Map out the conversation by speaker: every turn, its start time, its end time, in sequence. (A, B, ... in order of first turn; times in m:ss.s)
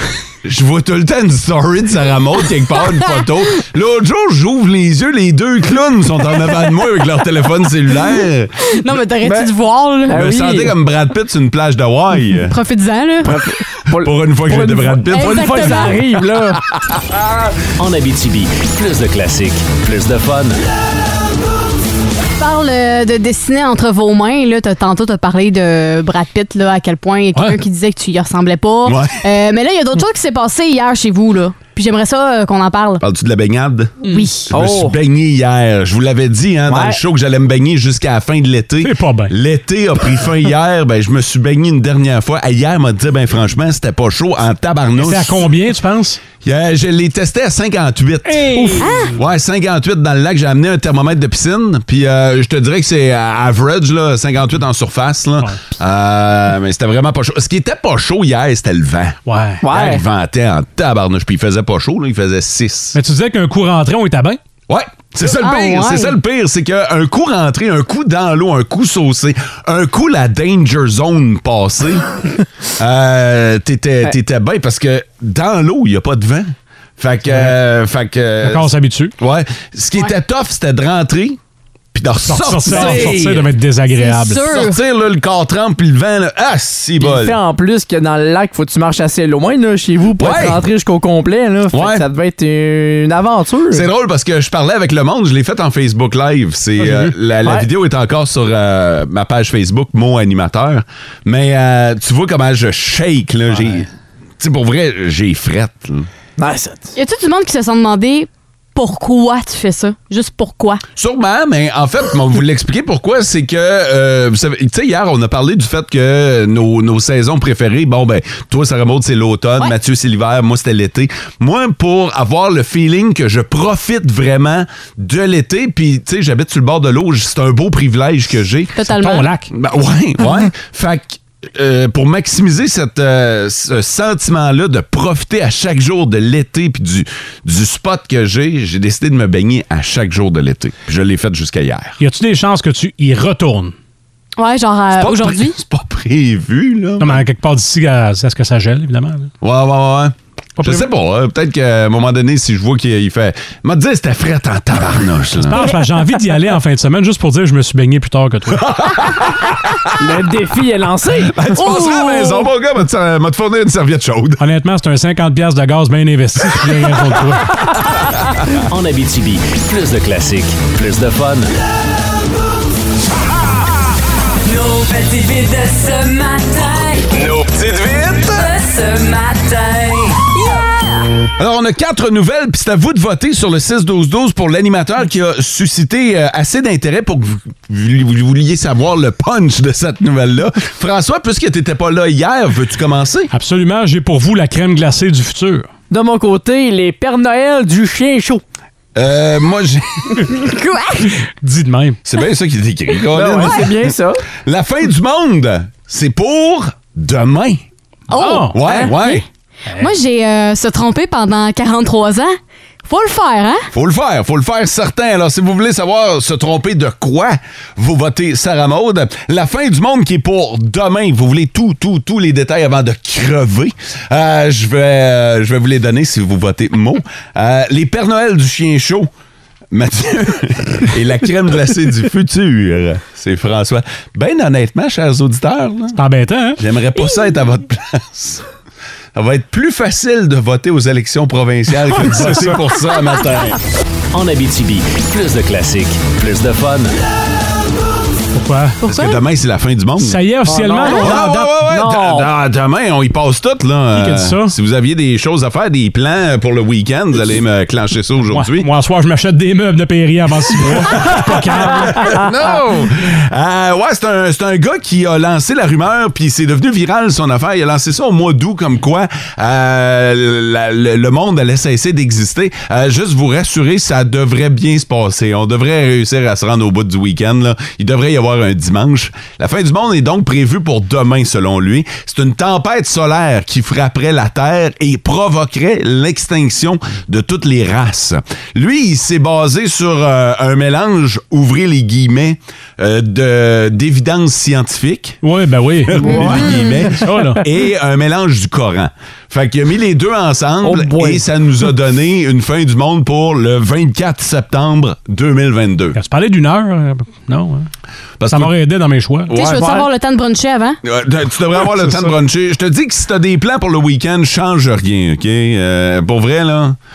0:00.4-0:08.5 A
0:08.7-0:10.2 B
0:09.2-0:09.5 C
0:10.1-0:10.8 C
0:10.1-0:12.6 A
0:12.5-0:13.4 B
0:13.3-0:16.6 C
0:13.9-0:17.5 A
0:15.1-0:16.0 B
0:17.8-0:20.6 D
0:22.4-0:33.0 B
0:28.8-0:29.2 A
0:33.0-0:45.5 A
0:34.0-0:34.5 B
0:34.5-0:35.0 C
0:36.7-0:37.0 C
0:38.8-0:39.3 E
0:45.0-0:46.2 E
0:46.4-1:03.0 A
0:48.3-0:49.2 E
0:48.8-0:49.1 B
0:59.3-0:59.6 E
0:59.6-1:00.0 C
1:02.9-1:04.4 E
1:04.7-1:12.1 A
1:05.2-1:06.2 B
1:12.8-1:21.4 A
1:17.3-1:17.6 E
1:18.4-1:19.1 E
1:21.9-1:23.6 A
1:22.2-1:24.6 E
1:22.7-1:23.2 B
1:23.9-1:24.8 B
1:24.5-1:27.4 A
1:27.0-1:33.9 C
1:30.2-1:30.6 A
1:31.7-1:32.1 A
1:33.7-1:43.9 A
1:36.8-1:37.1 E
1:43.6-1:43.8 E
1:44.4-1:46.1 A
1:46.4-1:46.9 C
1:47.0-1:50.8 B
1:51.0-2:08.8 A
2:08.8-2:09.3 B
2:08.9-2:09.5 E
2:09.5-2:22.0 A
2:22.0-2:23.7 E
2:24.4-2:25.6 B
2:25.0-2:27.2 A
2:27.0-2:29.3 E
2:29.4-2:35.7 A
2:30.6-2:30.9 E
2:35.4-2:38.6 E
2:38.6-2:39.9 A
2:40.0-2:41.4 C
2:41.3-2:44.4 A
2:41.6-2:42.5 B
2:44.4-2:47.7 E
2:48.7-2:51.5 D
2:54.5-2:57.1 F
2:58.5-3:00.7 F
3:01.4-3:13.3 A
3:13.3-3:15.7 E
3:15.9-3:18.4 C
3:19.0-3:20.3 A
3:20.3-3:21.1 B
3:21.4-3:22.0 E
3:22.0-3:27.6 A
3:23.1-3:24.2 C
3:28.1-3:29.2 B
3:28.2-3:28.7 E
3:28.5-3:29.2 A
3:29.8-3:33.6 B
3:33.7-3:49.1 A
3:49.7-3:56.0 A
3:56.0-3:56.6 E
3:56.6-3:58.4 A
3:59.2-4:03.6 A
4:01.9-4:02.6 E
4:04.1-4:07.0 D
4:08.3-4:08.8 E
4:08.8-4:09.2 B
4:08.8-4:10.2 A
4:10.0-4:11.5 E
4:10.5-4:12.3 C
4:10.9-4:18.7 A
4:13.9-4:14.6 E
4:18.3-4:22.3 E
4:20.7-4:55.2 A
4:55.2-4:57.4 E
4:55.9-5:06.0 A
5:00.6-5:01.3 C
5:06.0-5:07.7 E
5:08.2-5:08.5 A
5:08.3-5:09.4 E
5:09.3-5:09.7 A
5:09.3-5:10.8 B
5:09.6-5:09.8 C
5:10.8-5:16.8 A
5:11.8-5:12.1 E